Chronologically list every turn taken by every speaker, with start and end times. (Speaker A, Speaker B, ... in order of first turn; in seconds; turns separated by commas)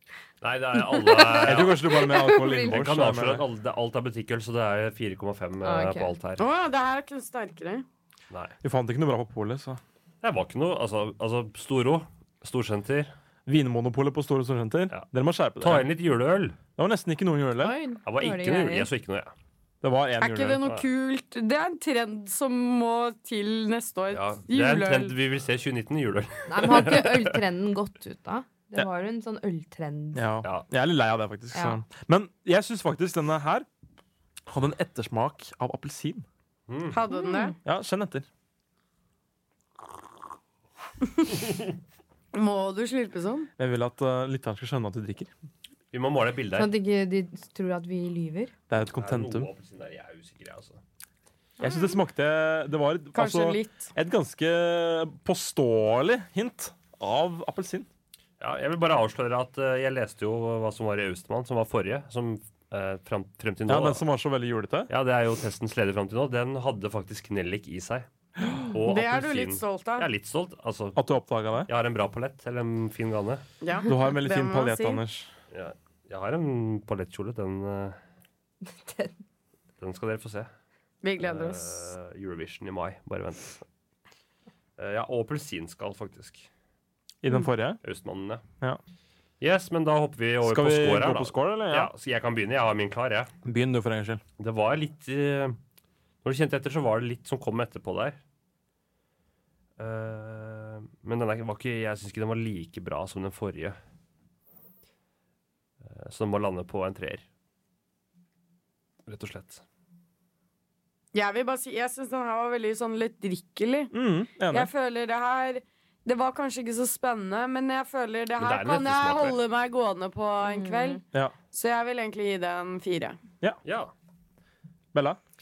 Speaker A: 0.4-1.9, Speaker B: 0.8-2.8, Speaker C: 1.4-3.5, Speaker A: 2.6-6.5, Speaker B: 5.6-6.1, Speaker D: 6.4-7.8, Speaker A: 8.3-8.6, Speaker C: 8.6-9.8, Speaker A: 10.2-13.1, Speaker C: 13.5-15.9, Speaker A: 15.6-16.6, Speaker C: 16.8-17.8, Speaker B: 17.6-18.9, Speaker A: 18.1-19.3, Speaker C: 19.8-20.6, Speaker D: 20.2-25.1, Speaker A: 24.1-27.3, Speaker B: 26.5-30.3, Speaker C: 30.1-33.7, Speaker B: 31.5-31.8, Speaker C: 34.5-36.3, Speaker A: 36.7-37.0, Speaker D: 36.9-37.5, Speaker B: 37.1-37.5, Speaker C: 37.6-38.3, Speaker D: 42.3-43.5, Speaker C: 43.6-45.3, Speaker A: 45.9-46.7, Speaker B: 46.6-48.5, Speaker C: 48.7-49.5, Speaker A: 48.7-50.8, Speaker C: 51.6-57.9, Speaker B: 51.6-51.9, Speaker D: 53.1-53.9, Speaker A: 58.4-64.0, Speaker C: 63.7-64.9, Speaker A: 64.9-68.1, Speaker C: 68.4-68.7, Speaker A: 68.7-71.0, Speaker D: 68.9-70.1, Speaker C: 71.0-71.7, Speaker A: 71.7-73.4, Speaker D: 73.6-75.0, Speaker C: 73.9-75.3, Speaker A: 75.5-78.0, Speaker B: 78.6-79.1, Speaker A: 79.8-80.5, Speaker D: 81.0-81.9, Speaker A: 81.2-83.6, Speaker A: 84.8-86.5, Speaker C: 87.2-87.8, Speaker A: 87.8-88.4, Speaker A: 89.4-93.3, Speaker C: 90.4-91.9, Speaker C: 93.5-94.2, Speaker A: 94.4-95.6, Speaker A: 96.2-98.2, Speaker A: 99.8-103.8, Speaker A: 105.8-107.2, Speaker A: 109.1-109.6, Speaker D: 111.1-113.9, Speaker C: 113.9-114.7, Speaker D: 114.5-123.2, Speaker A: 118.4-119.4, Speaker B: 120.4-121.0, Speaker A: 123.7-123.9, Speaker C: 124.9-125.2